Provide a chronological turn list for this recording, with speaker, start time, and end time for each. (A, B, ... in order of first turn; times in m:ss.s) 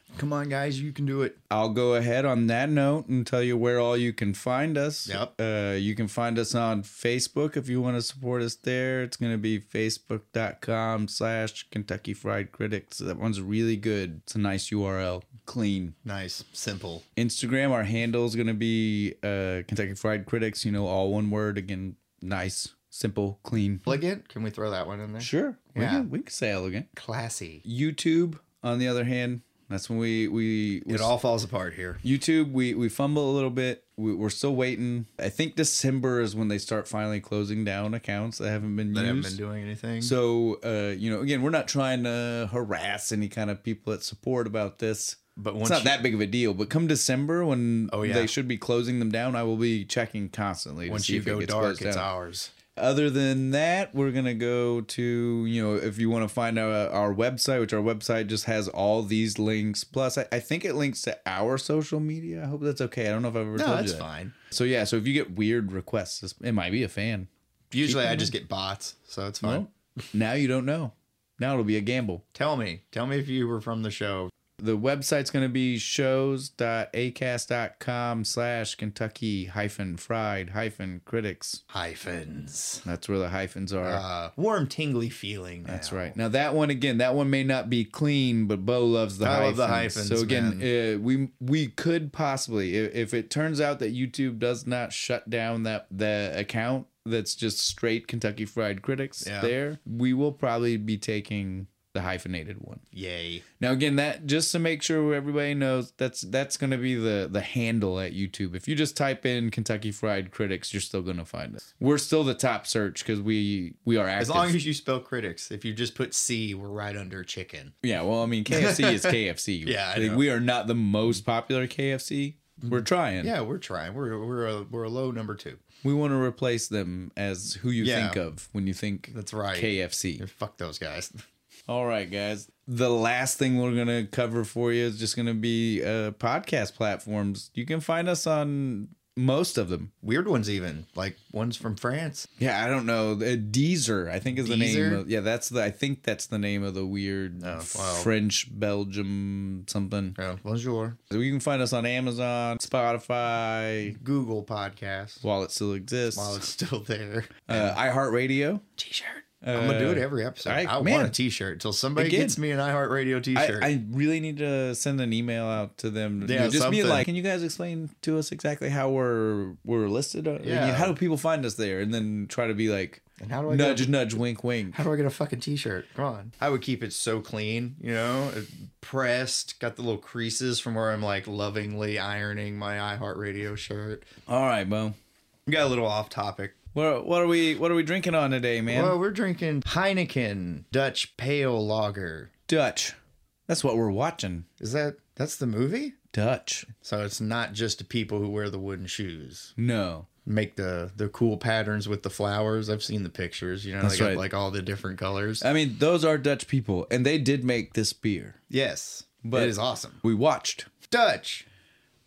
0:00.1-0:01.4 A
0:01.5-0:16.0 B
0:05.1-0:05.3 A
0:16.0-0:17.0 A
0:17.2-0:23.9 B
0:23.9-0:26.1 A
0:25.2-0:26.9 B
0:26.9-0:27.6 A
0:27.6-0:31.1 B
0:30.9-0:32.0 A
0:32.0-0:39.4 B
0:38.9-0:40.2 A
0:40.0-0:52.1 B
0:45.4-0:46.0 A
0:47.9-0:48.3 A
0:50.9-0:52.5 A
0:52.8-1:07.3 B
1:03.6-1:04.4 A
1:07.7-1:09.6 A
1:07.8-1:08.4 B
1:09.4-1:12.2 B
1:12.4-1:14.3 A
1:14.6-1:21.6 B
1:21.7-1:22.8 A
1:22.8-1:24.0 B
1:23.8-1:26.2 A
1:25.7-1:42.8 B
1:29.2-1:30.6 A
1:39.2-1:39.5 A
1:42.9-1:43.4 A
1:43.6-1:54.6 B
1:54.2-1:57.7 A
1:57.8-2:03.3 B
1:58.5-2:00.3 A
2:02.6-2:05.6 A
2:05.8-2:10.2 B
2:07.8-2:08.2 A
2:09.1-2:11.1 A
2:11.7-2:19.9 B
2:20.0-2:22.3 A
2:22.4-2:30.2 B
2:24.4-2:25.0 A
2:27.4-2:28.1 A
2:30.2-2:31.0 A
2:31.1-2:34.0 B
2:33.9-2:35.2 A
2:35.2-2:36.4 B
2:36.1-2:37.8 A
2:37.5-2:38.6 B
2:38.8-2:43.7 A
2:39.4-2:41.2 B
2:42.0-2:42.4 B
2:43.3-2:54.8 B
2:46.2-2:47.1 A
2:50.4-2:51.0 A
2:53.2-2:54.0 A
2:54.7-3:04.1 A
3:04.3-3:05.0 B
3:05.5-3:06.6 A
3:06.7-3:09.0 B
3:08.7-3:12.3 A
3:12.5-3:13.0 B
3:13.5-3:14.5 B
3:14.6-3:16.0 A
3:16.1-3:16.7 B
3:16.7-3:19.5 A
3:19.6-3:20.1 B
3:20.3-3:25.5 A
3:23.8-3:24.2 B
3:25.4-3:28.4 B
3:28.5-3:30.0 A
3:29.2-3:30.7 B
3:30.9-3:31.5 A